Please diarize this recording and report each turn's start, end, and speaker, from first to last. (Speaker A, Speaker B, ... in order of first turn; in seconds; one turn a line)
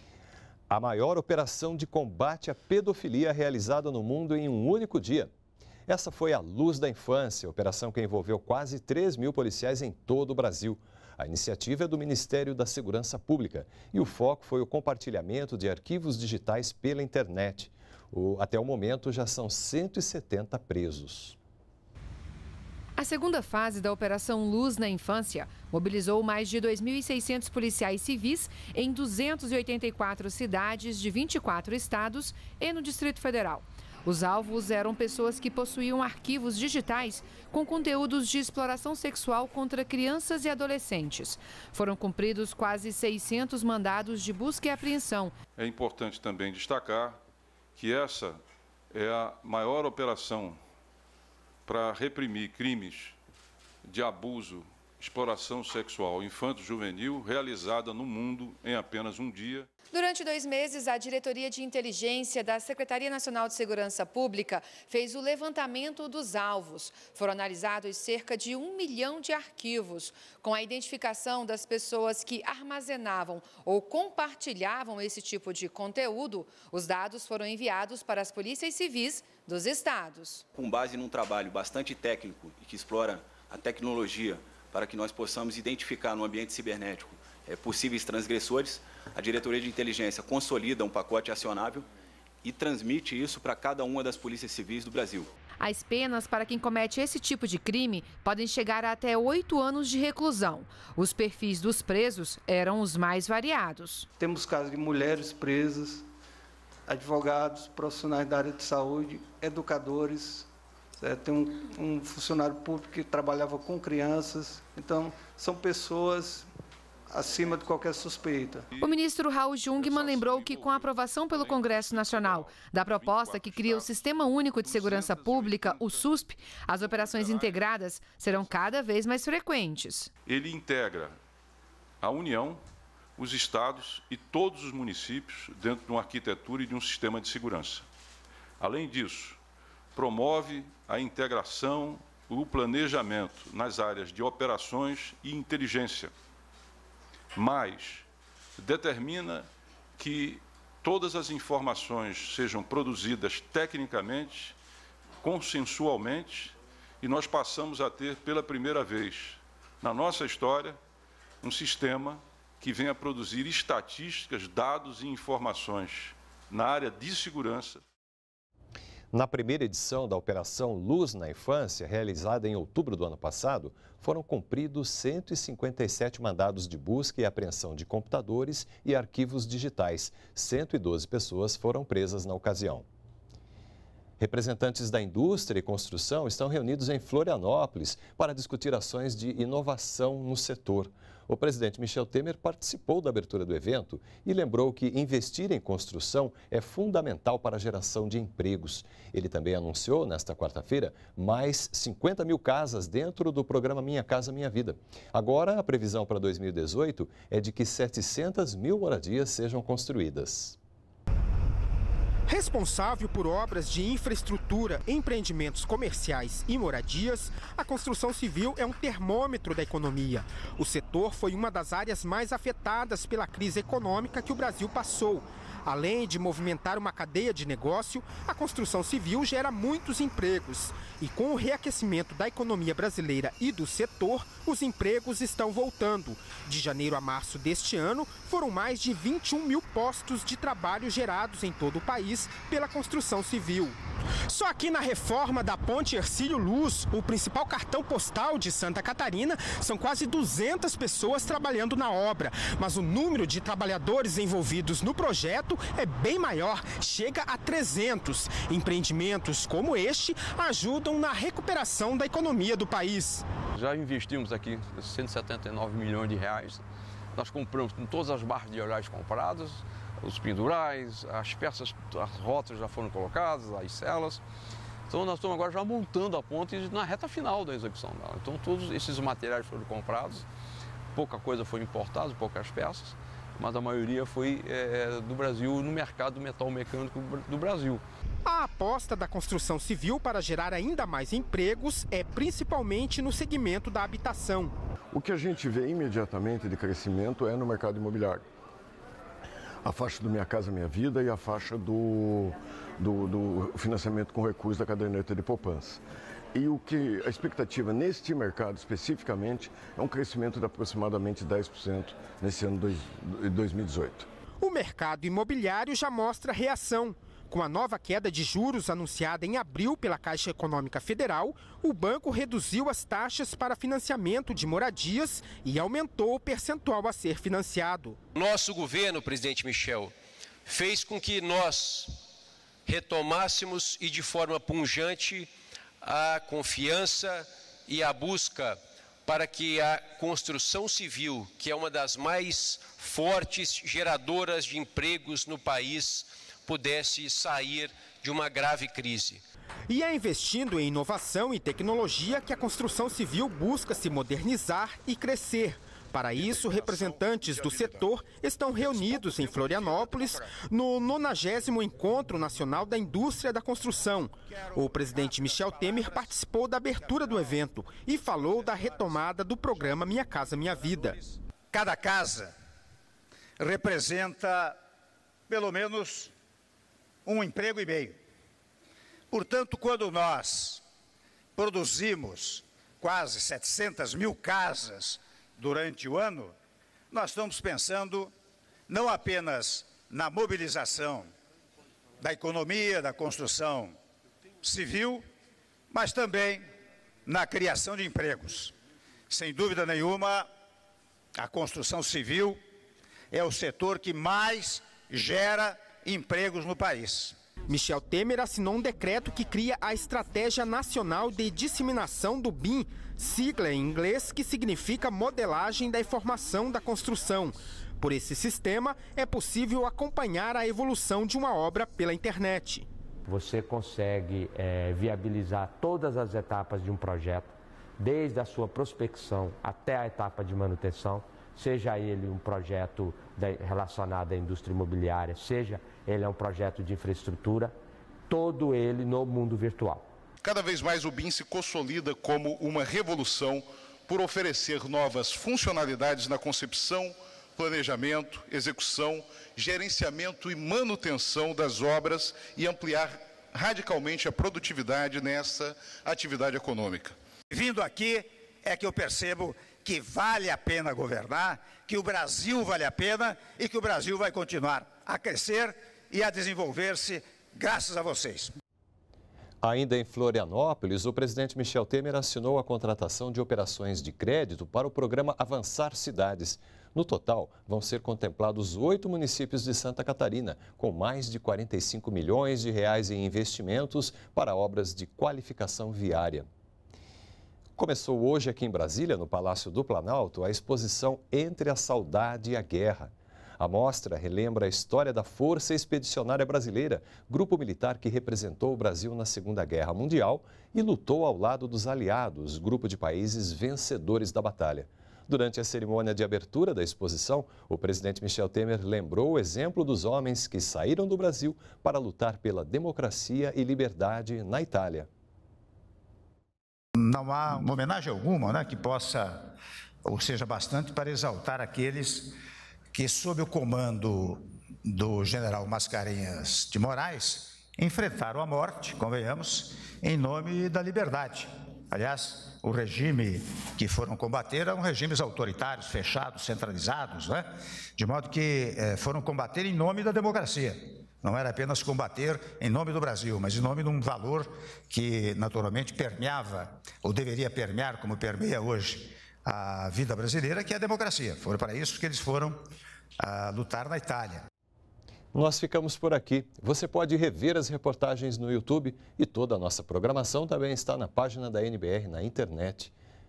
Speaker A: 0.7-5.3
Speaker A: 5.9-21.4
Speaker B: 23.0-45.4
Speaker C: 45.6-47.2
Speaker C: 47.8-48.4
Speaker C: 48.9-50.6
Speaker C: 51.7-53.1
Speaker C: 53.9-59.7
Speaker B: 59.9-80.4
Speaker D: 80.5-91.8
Speaker D: 92.4-95.3
Speaker B: 95.6-104.1
Speaker E: 104.2-106.0
Speaker E: 106.9-116.5
Speaker E: 117.1-118.6
Speaker C: 118.7-119.0
Speaker B: 118.8-130.1
Speaker C: 119.7-123.9
Speaker C: 124.5-126.0
Speaker C: 126.8-127.6
Speaker C: 130.2-131.2
Speaker C: 132.0-132.6
Speaker C: 133.2-137.8
Speaker C: 138.6-139.4
Speaker C: 139.9-146.1
Speaker C: 147.3-148.1
Speaker C: 148.6-149.5
Speaker C: 150.0-154.6
Speaker C: 155.2-160.8
Speaker C: 161.4-167.8
Speaker A: 169.1-182.8
Speaker A: 184.2-210.6
Speaker F: 212.3-263.2
Speaker G: 263.5-266.6
Speaker G: 267.1-274.2
Speaker G: 274.9-280.2
Speaker G: 280.9-287.8
Speaker F: 288.2-294.5
Speaker H: 294.9-298.2
Speaker H: 299.6-305.8
Speaker H: 306.3-314.1
Speaker F: 314.4-328.0
Speaker I: 328.1-329.9
Speaker I: 330.4-332.0
Speaker I: 332.6-335.3
Speaker I: 335.8-349.2
Speaker F: 349.7-371.0
Speaker J: 356.2-357.9
Speaker K: 364.6-366.1
Speaker K: 371.5-372.3
Speaker K: 373.4-374.6
Speaker K: 375.3-376.1
Speaker K: 377.1-378.0
Speaker K: 379.1-380.6
Speaker K: 381.4-386.3
Speaker K: 386.9-388.1
Speaker K: 388.7-391.1
Speaker K: 392.0-393.8
Speaker K: 394.4-395.0
Speaker K: 395.7-396.4
Speaker K: 397.1-398.5
Speaker K: 399.1-400.3
Speaker K: 401.1-402.4
Speaker K: 403.1-407.1
Speaker F: 407.5-422.6
Speaker L: 423.1-437.5
Speaker L: 438.1-439.9
Speaker J: 440.2-456.9
Speaker K: 457.3-468.4
Speaker A: 469.4-486.3
Speaker A: 487.6-514.9
Speaker K: 516.8-519.3
Speaker K: 519.8-522.1
Speaker K: 522.7-552.4
Speaker K: 553.0-554.2
Speaker A: 555.1-562.7